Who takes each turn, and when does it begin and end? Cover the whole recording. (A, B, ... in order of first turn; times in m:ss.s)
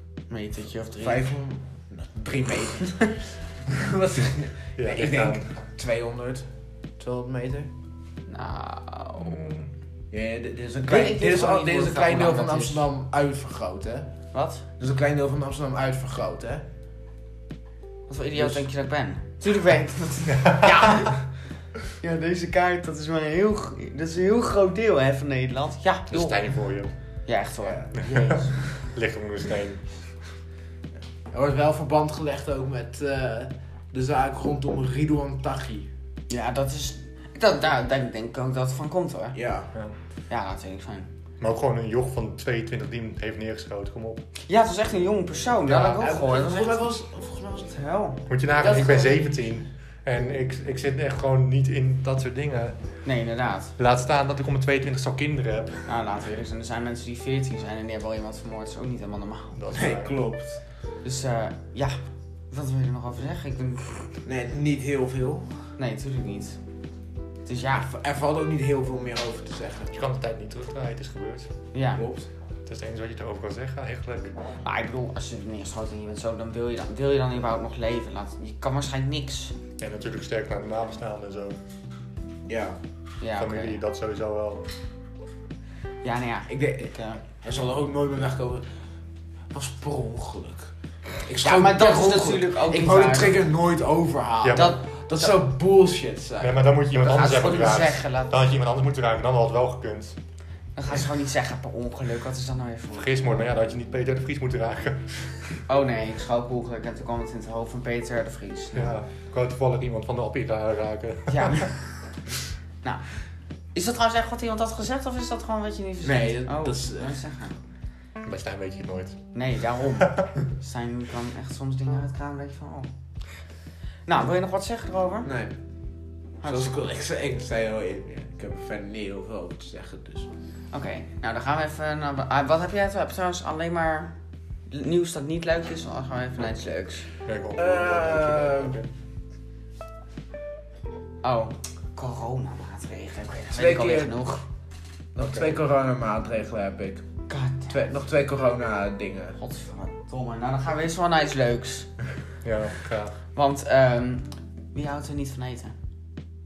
0:00.3-0:01.3 A
0:01.0-0:07.7 B
0:04.8-0:05.5 C
0:08.3-0:09.4 A
0:09.2-0:09.7 C
0:10.1-0:14.1 B
0:10.9-0:12.8 A
0:14.3-0:14.6 A
0:14.8-0:16.6 B
0:18.1-0:21.2 A
0:18.4-0:18.6 B
0:20.4-0:21.0 C
0:22.0-0:26.4 A
0:26.1-0:26.9 C
0:27.2-0:28.6 A
0:27.6-0:27.9 B
0:28.0-0:29.8 C
0:31.3-0:35.9 B
0:36.3-0:39.4 A
0:39.3-0:39.7 B
0:40.3-0:41.1 A
0:41.4-0:44.2 C
0:44.5-0:46.8 A
0:45.7-0:46.0 C
0:45.8-0:47.8 B
0:47.7-0:48.2 A
0:48.3-0:52.8 C
0:48.6-0:49.5 B
0:53.0-0:53.7 A
0:53.8-0:55.8 C
0:55.9-0:59.6 A
0:59.5-1:00.2 C
0:59.7-1:00.6 B
1:01.0-1:02.0 A
1:02.5-1:04.0 A
1:04.2-1:05.4 B
1:05.8-1:06.6 A
1:07.4-1:07.9 A
1:07.7-1:09.9 B
1:09.9-1:11.5 C
1:11.7-1:12.0 A
1:12.0-1:12.3 B
1:12.6-1:14.4 C
1:14.6-1:19.6 A
1:19.8-1:21.6 C
1:22.4-1:22.8 B
1:23.2-1:23.8 A
1:23.4-1:24.7 C
1:26.0-1:27.2 A
1:26.5-1:28.6 B
1:29.5-1:30.7 B
1:31.2-1:36.6 B
1:31.4-1:33.4 A
1:34.4-1:34.8 C
1:34.6-1:35.3 A
1:36.4-1:40.2 C
1:37.0-1:38.3 A
1:40.8-1:43.4 A
1:42.9-1:45.6 C
1:45.7-1:49.0 A
1:48.7-1:51.7 C
1:51.3-1:51.8 A
1:53.7-1:57.6 A
1:56.0-1:57.2 B
1:58.2-1:59.2 C
1:59.3-2:02.9 A
2:04.0-2:05.3 A
2:05.2-2:05.6 B
2:06.4-2:06.8 A
2:06.4-2:10.3 B
2:10.7-2:14.1 A
2:14.7-2:17.0 A
2:17.2-2:18.9 C
2:17.5-2:18.8 B
2:21.2-2:24.4 A
2:23.5-2:24.3 B
2:25.2-2:25.6 A
2:25.2-2:27.0 B
2:27.3-2:27.8 A
2:27.7-2:29.4 B
2:29.4-2:31.9 A
2:32.4-2:33.2 C
2:33.3-2:35.7 A